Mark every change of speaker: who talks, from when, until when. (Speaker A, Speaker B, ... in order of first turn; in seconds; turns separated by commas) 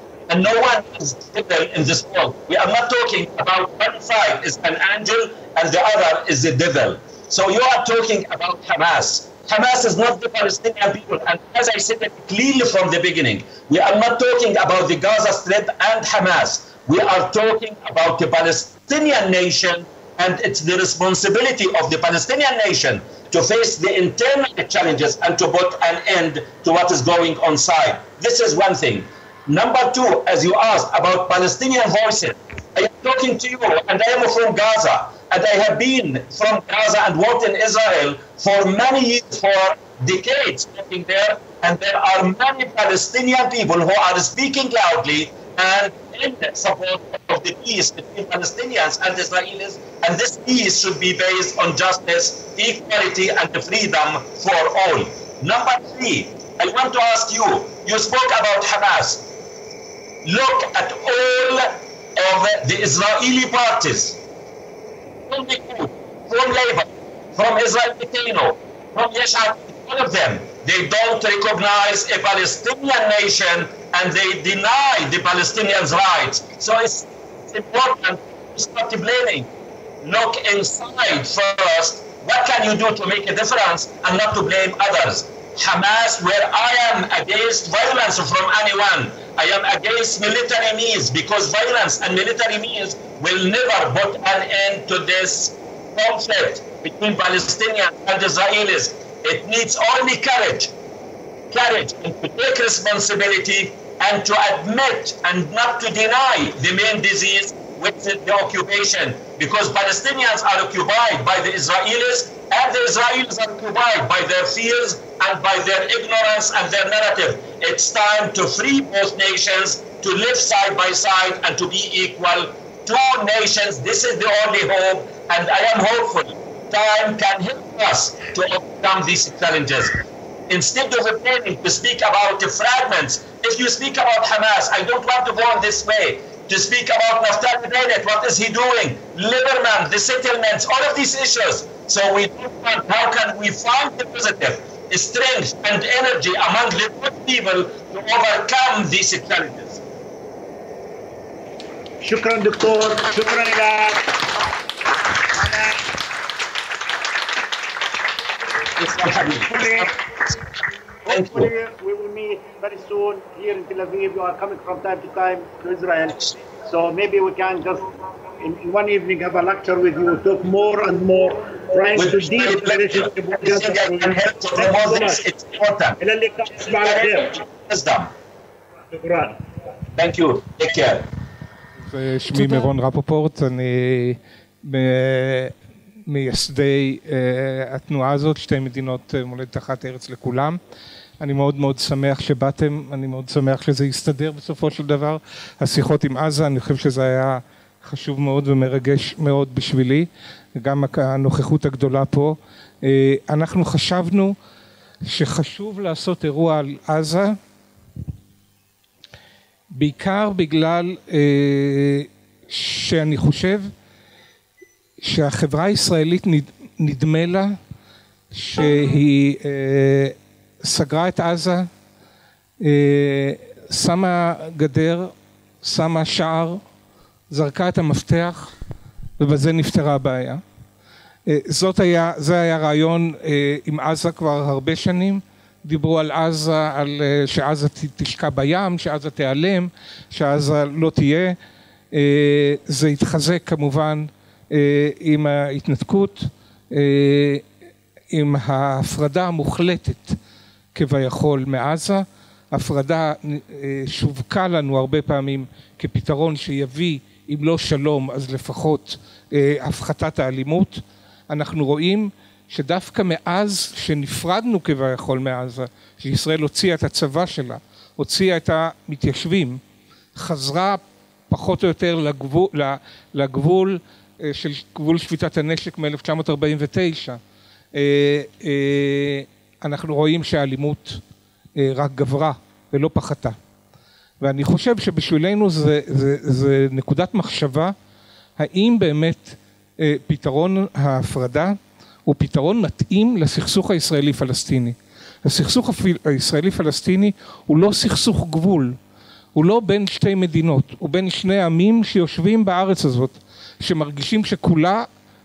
Speaker A: 0.3-59.3, Speaker A: 60.2-64.2, Speaker A: 65.3-79.5, Speaker A: 80.0-100.7, Speaker A: 101.5-130.0, Speaker A: 130.5-149.8, Speaker B: 152.0-154.1, Speaker B: 155.3-155.8, Speaker A: 158.8-159.9, Speaker B: 159.2-159.9, Speaker B: 161.1-167.8, Speaker A: 161.1-161.5, Speaker B: 168.4-175.2, Speaker A: 171.9-176.0, Speaker B: 176.0-177.4, Speaker A: 176.8-178.1, Speaker B: 178.9-179.4, Speaker A: 180.0-181.0, Speaker C: 181.9-185.5, Speaker C: 186.1-190.6, Speaker C: 191.2-204.3, Speaker C: 205.1-207.3, Speaker C: 209.7-213.7, Speaker C: 215.0-217.6, Speaker C: 218.3-221.7, Speaker C: 222.6-226.6, Speaker C: 227.3-228.5, Speaker C: 229.2-230.4, Speaker C: 231.3-241.3, Speaker C: 241.9-247.4, Speaker C: 248.1-250.2, Speaker C: 250.7-269.6, Speaker C: 270.1-277.2, Speaker C: 277.7-281.0, Speaker C: 281.6-283.4, Speaker C: 284.2-287.7, Speaker C: 288.4-291.6, Speaker C: 292.1-298.8, Speaker C: 299.4-304.9